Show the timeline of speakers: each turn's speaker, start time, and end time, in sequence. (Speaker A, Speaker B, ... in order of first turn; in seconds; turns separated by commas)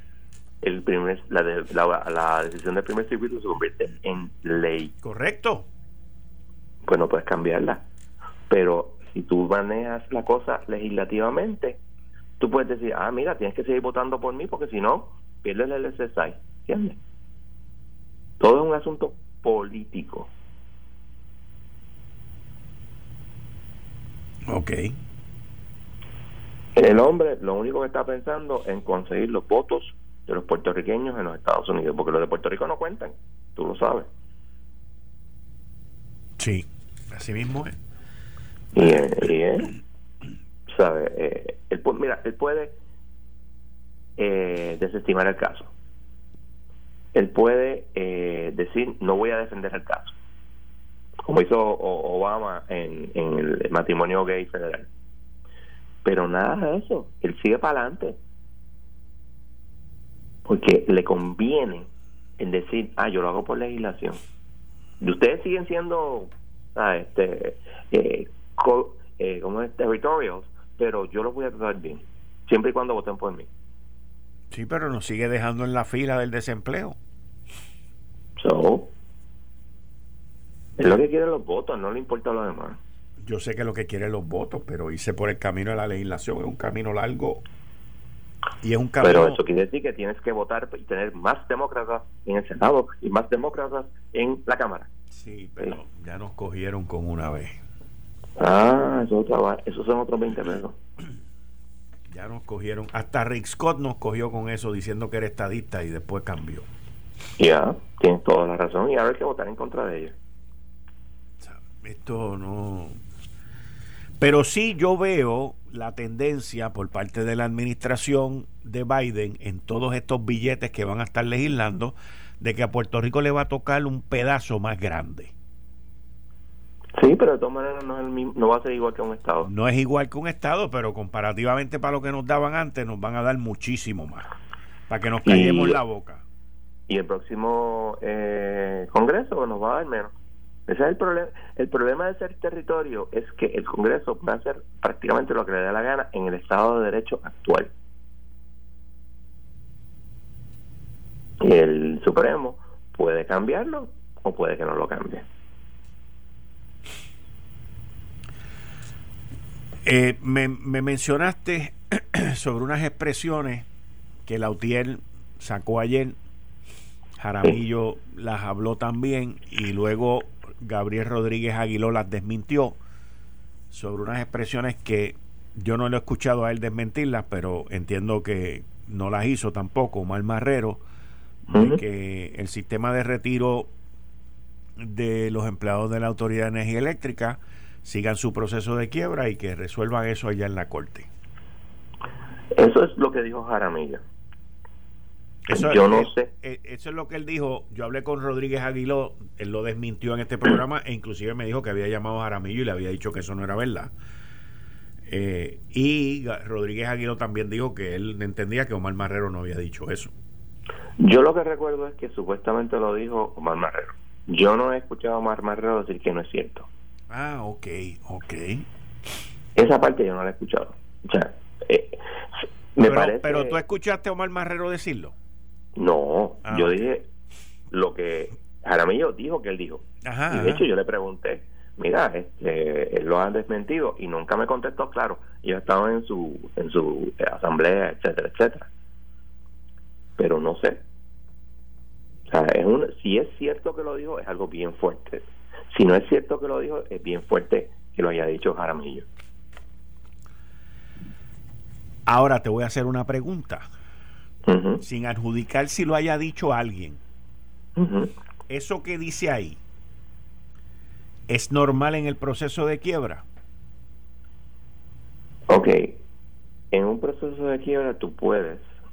Speaker A: 0.6-4.9, Speaker B: 5.0-5.7, Speaker A: 6.8-7.8, Speaker A: 8.5-11.8, Speaker A: 12.4-17.0, Speaker A: 18.4-20.3, Speaker B: 24.5-24.9, Speaker A: 26.7-34.1, Speaker B: 36.4-37.7, Speaker A: 38.7-39.7, Speaker A: 40.7-42.7, Speaker A: 44.2-45.7, Speaker A: 47.1-50.1, Speaker A: 51.2-54.9, Speaker A: 56.0-58.2, Speaker A: 60.5-64.2, Speaker A: 65.0-73.5, Speaker B: 74.5-77.0, Speaker A: 78.4-78.9, Speaker A: 80.8-82.8, Speaker B: 83.2-87.4, Speaker B: 88.6-89.4, Speaker A: 89.0-94.9, Speaker B: 95.1-97.6, Speaker A: 98.4-100.8, Speaker B: 102.1-106.7, Speaker A: 107.4-110.1, Speaker B: 111.4-113.0, Speaker B: 114.2-125.3, Speaker A: 127.0-129.5, Speaker B: 129.4-134.3, Speaker B: 134.9-136.2, Speaker A: 135.2-135.8, Speaker A: 136.9-140.1, Speaker A: 140.7-147.7, Speaker A: 151.4-155.2, Speaker B: 159.8-163.7, Speaker B: 164.2-166.2, Speaker B: 167.2-172.8, Speaker B: 173.7-180.8, Speaker B: 181.5-183.7, Speaker A: 181.5-181.8, Speaker B: 184.8-191.1, Speaker A: 192.5-194.0, Speaker B: 195.4-203.9, Speaker A: 195.5-196.3, Speaker B: 205.1-210.1, Speaker A: 211.0-216.7, Speaker B: 217.1-218.6, Speaker A: 219.5-222.0, Speaker A: 222.7-223.6, Speaker B: 222.8-225.1, Speaker A: 225.7-227.1, Speaker B: 226.4-226.9, Speaker A: 227.7-238.7, Speaker B: 230.0-230.7, Speaker A: 240.2-240.8, Speaker A: 242.3-249.1, Speaker B: 252.1-253.7, Speaker A: 254.4-254.8, Speaker B: 254.8-257.0, Speaker A: 257.8-258.1, Speaker B: 258.5-259.6, Speaker B: 261.3-263.2, Speaker A: 265.5-265.9, Speaker A: 266.7-268.6